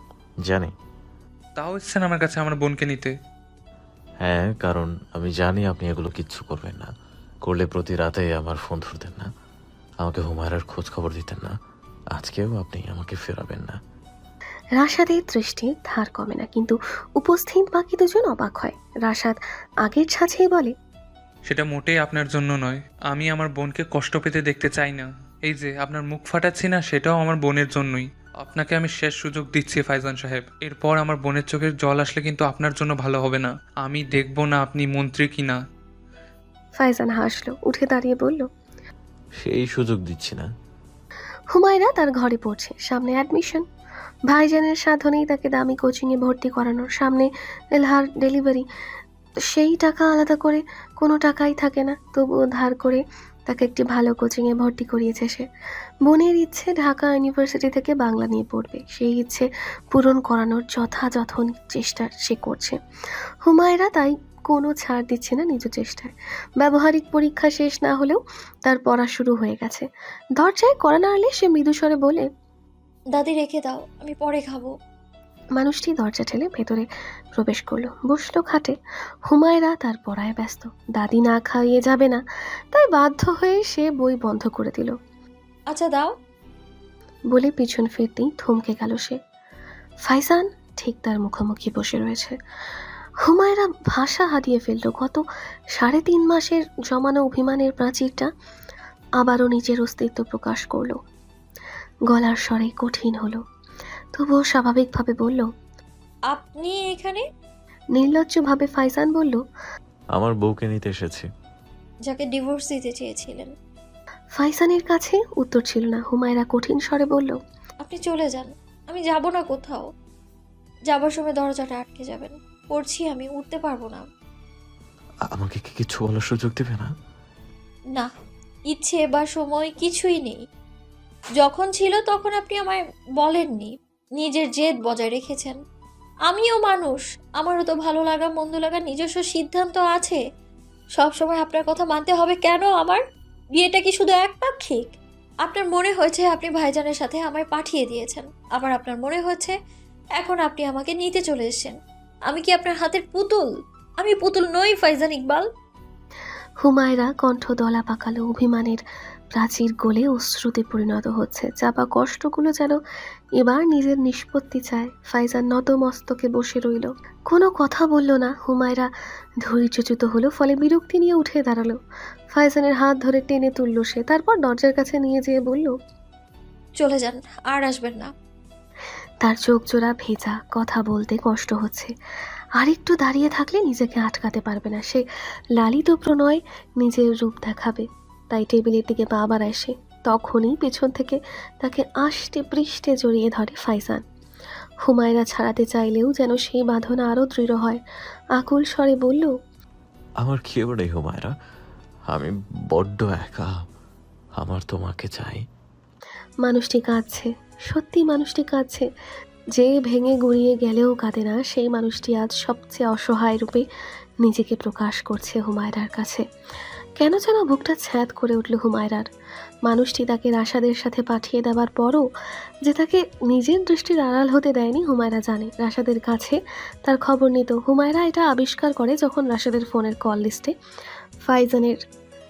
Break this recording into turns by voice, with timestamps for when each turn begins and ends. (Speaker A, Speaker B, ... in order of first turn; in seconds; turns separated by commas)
Speaker A: 0.5-0.7, Speaker B: 1.6-3.1, Speaker A: 4.2-6.9, Speaker A: 7.4-9.3, Speaker A: 10.0-11.5, Speaker A: 12.1-13.8, Speaker C: 14.8-20.7, Speaker B: 21.5-35.6, Speaker C: 36.8-38.5, Speaker A: 39.4-40.5, Speaker C: 41.5-43.6, Speaker C: 44.3-48.6, Speaker C: 49.4-55.5, Speaker C: 56.0-62.8, Speaker C: 63.4-72.3, Speaker D: 73.2-74.7, Speaker C: 75.6-78.8, Speaker C: 79.3-85.0, Speaker D: 85.7-86.1, Speaker C: 87.3-89.2, Speaker C: 90.0-92.3, Speaker C: 93.2-98.3, Speaker C: 99.2-101.0, Speaker C: 102.1-103.4, Speaker C: 104.1-105.5, Speaker D: 106.3-107.2, Speaker C: 107.9-109.4, Speaker A: 110.1-111.2, Speaker D: 112.0-113.5, Speaker C: 114.3-117.4, Speaker D: 117.8-119.8, Speaker D: 120.9-124.0, Speaker A: 125.3-126.9, Speaker D: 128.7-130.4, Speaker D: 131.4-135.6, Speaker D: 136.3-140.2, Speaker D: 141.0-143.0, Speaker D: 143.6-149.6, Speaker D: 150.2-151.7, Speaker D: 152.3-153.5, Speaker D: 154.0-155.4, Speaker C: 156.6-158.8, Speaker C: 159.3-162.8, Speaker C: 163.4-168.9, Speaker C: 169.4-171.8, Speaker C: 172.3-175.8, Speaker D: 176.8-178.1, Speaker C: 179.2-181.9, Speaker C: 182.6-194.0, Speaker C: 194.8-197.8, Speaker C: 198.3-199.3, Speaker A: 200.2-201.3, Speaker A: 202.1-203.5, Speaker A: 204.4-205.4, Speaker C: 206.4-208.9, Speaker C: 209.5-213.6, Speaker C: 214.2-216.2, Speaker C: 217.0-219.1, Speaker C: 219.7-222.1, Speaker C: 222.6-230.5, Speaker C: 231.2-231.8